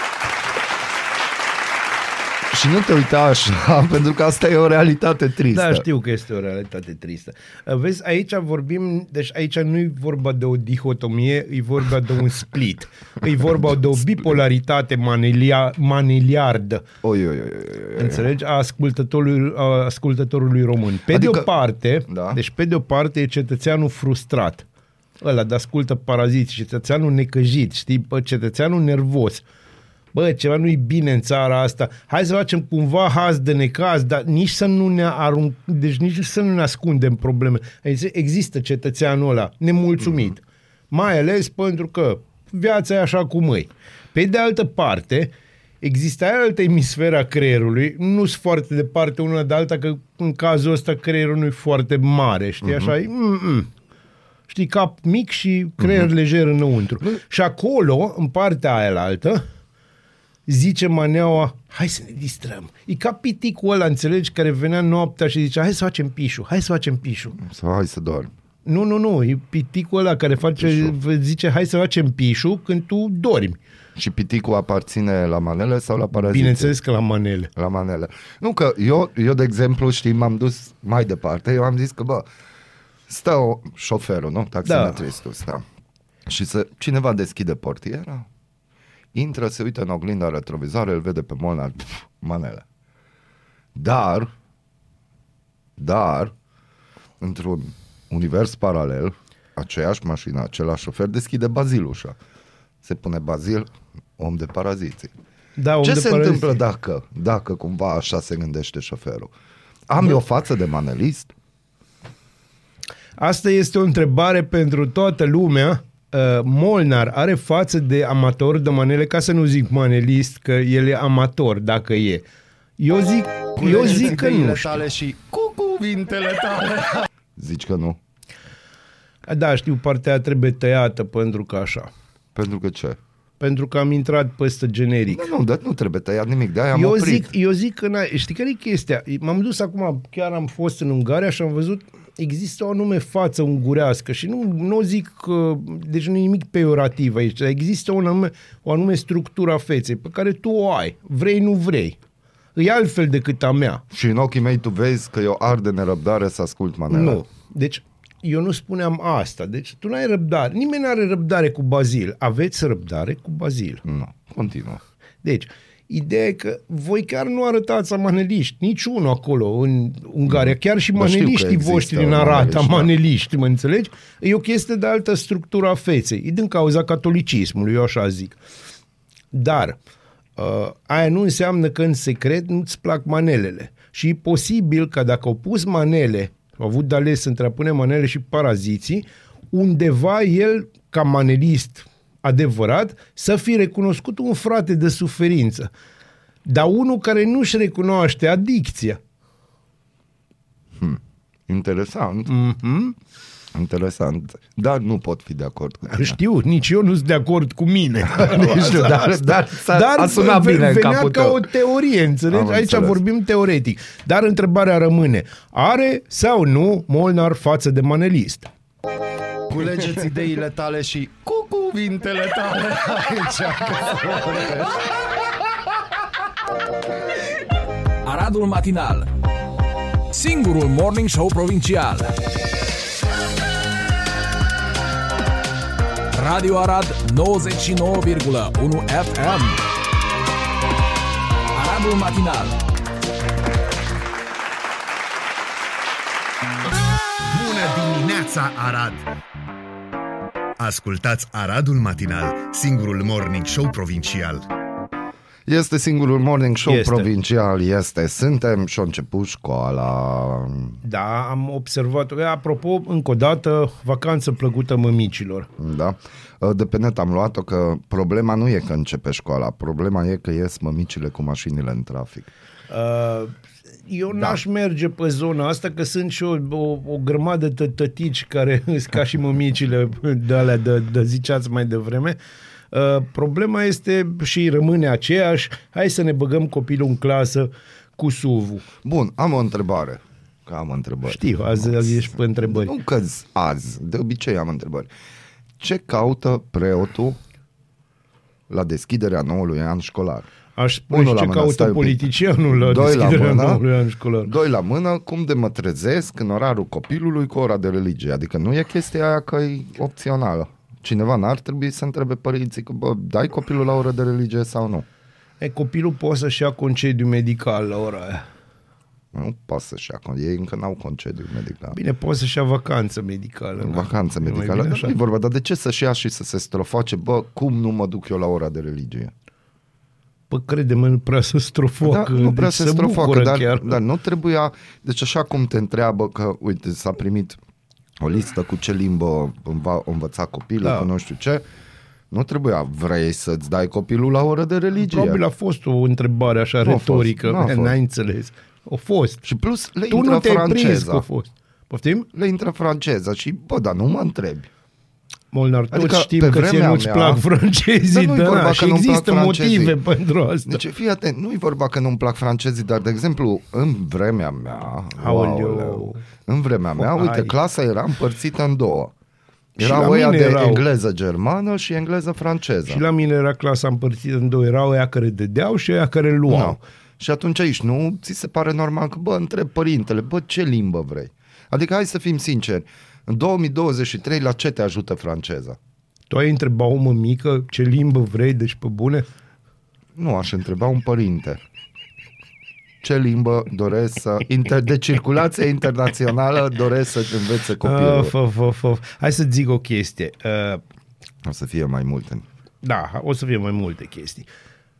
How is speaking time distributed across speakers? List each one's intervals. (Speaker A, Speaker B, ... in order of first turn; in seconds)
Speaker A: 2.5-5.8, 17.0-18.2, 21.1-21.5, 22.1-22.4, 52.6-52.9, 55.8-56.1, 67.4-68.3, 70.5-70.9, 74.0-76.8, 77.5-82.2, 83.1-85.6, 86.2-88.3, 89.1-92.6, 93.7-94.3, 95.8-96.3, 97.2-102.2, 102.8-105.1, 105.8-109.3, 109.9-111.3, 123.5-128.0, 132.3-133.0, 135.1-137.3, 153.9-157.2, 163.8-164.8, 170.3-172.9, 200.8-202.3, 203.5-206.2, 208.0-211.5, 212.3-213.0, 219.5-224.8, 255.5-260.8, 265.6-272.3, 274.1-274.4, 288.8-294.9, 295.6-297.2, 298.5-300.3, 300.9-303.6, 304.2-314.9, 319.1-321.8, 323.6-329.1, 331.8-337.4, 338.0-341.4, 342.1-345.2, 346.6-347.8, 349.2-351.1, 352.1-354.5, 355.7-357.2, 357.9-359.8, 360.5-368.9, 369.6-372.8, 376.3-385.6, 389.9-391.4, 392.8-398.1, 401.2-402.2
Speaker B: 5.5-16.8, 18.0-24.6, 25.2-29.4, 30.1-53.7, 54.5-59.4, 60.5-67.4, 68.6-73.6, 76.2-77.5, 84.6-85.0, 105.6-106.6, 113.2-122.2, 122.8-124.8, 129.2-131.9, 133.4-135.3, 136.7-152.0, 152.6-153.8, 156.9-163.8, 165.2-178.4, 179.3-179.8, 180.4-195.7, 196.4-199.0, 202.3-202.9, 205.9-218.5, 256.6-257.1, 260.8-265.5, 272.7-282.2, 282.7-288.6, 291.1-292.7, 300.6-304.3, 315.4-318.2, 321.7-324.9, 330.3-333.8, 340.6-340.9, 344.8-349.2, 349.9-352.1, 355.3-360.6, 365.0-366.0, 366.8-367.3, 369.6-370.6, 372.7-376.6, 386.1-389.1, 397.6-400.6, 402.6-404.3
Speaker C: 228.0-229.1, 230.1-232.1, 236.1-239.6, 241.5-242.6
Speaker D: 247.3-249.1, 250.6-254.4